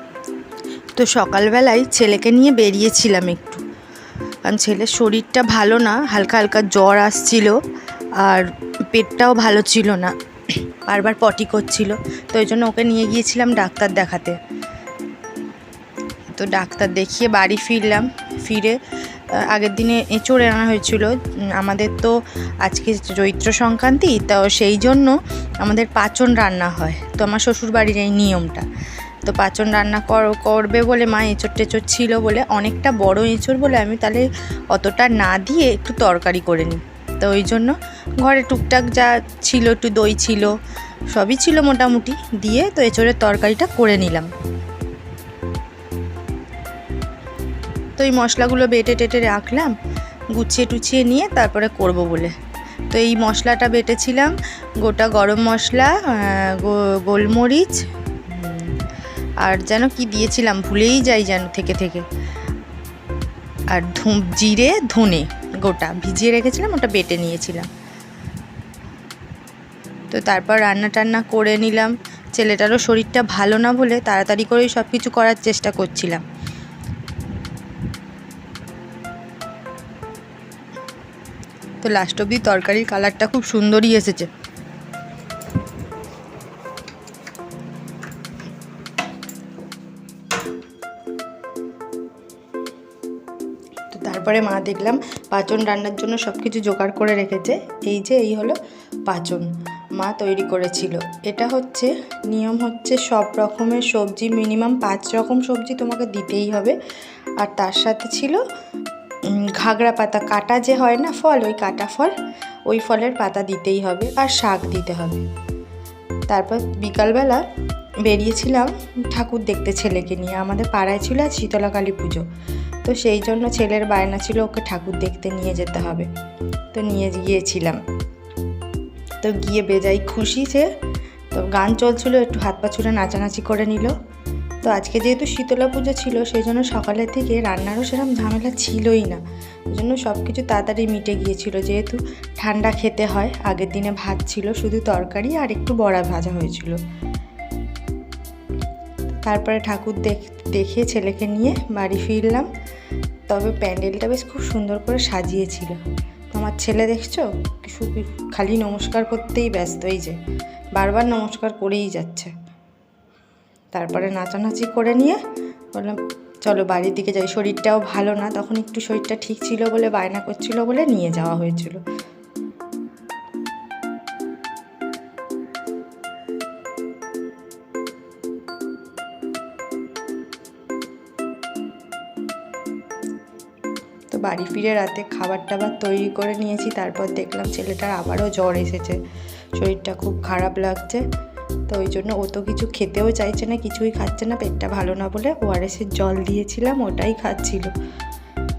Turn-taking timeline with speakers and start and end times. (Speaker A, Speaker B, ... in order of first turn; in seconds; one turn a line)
Speaker A: 1.0-3.6
Speaker A: 4.5-7.6
Speaker A: 8.2-14.4
Speaker A: 16.4-18.8
Speaker A: 19.3-28.7
Speaker A: 29.2-40.5
Speaker A: 41.1-44.3
Speaker A: 48.0-49.7
Speaker A: 50.3-52.3
Speaker A: 52.9-58.8
Speaker A: 59.4-62.0
Speaker A: 63.7-67.7
Speaker A: 70.1-76.2
Speaker A: 81.8-84.3
Speaker A: 93.9-106.8
Speaker A: 107.4-108.4
Speaker A: 109.3-112.1
Speaker A: 112.7-115.2
Speaker A: 116.3-117.4
Speaker A: 118.0-122.3
Speaker A: 122.8-126.1
Speaker A: 126.7-127.8
Speaker A: 129.2-130.7
Speaker A: 131.3-133.9
Speaker A: 134.6-146.8
Speaker A: 149.2-152.5
Speaker A: 153.3-155.8
Speaker A: 156.3-160.2
Speaker A: 160.8-162.3
Speaker A: 163.7-165.2
Speaker A: 165.8-171.8
Speaker A: 184.1-189.0
Speaker A: 189.6-191.0
Speaker A: 191.7-197.7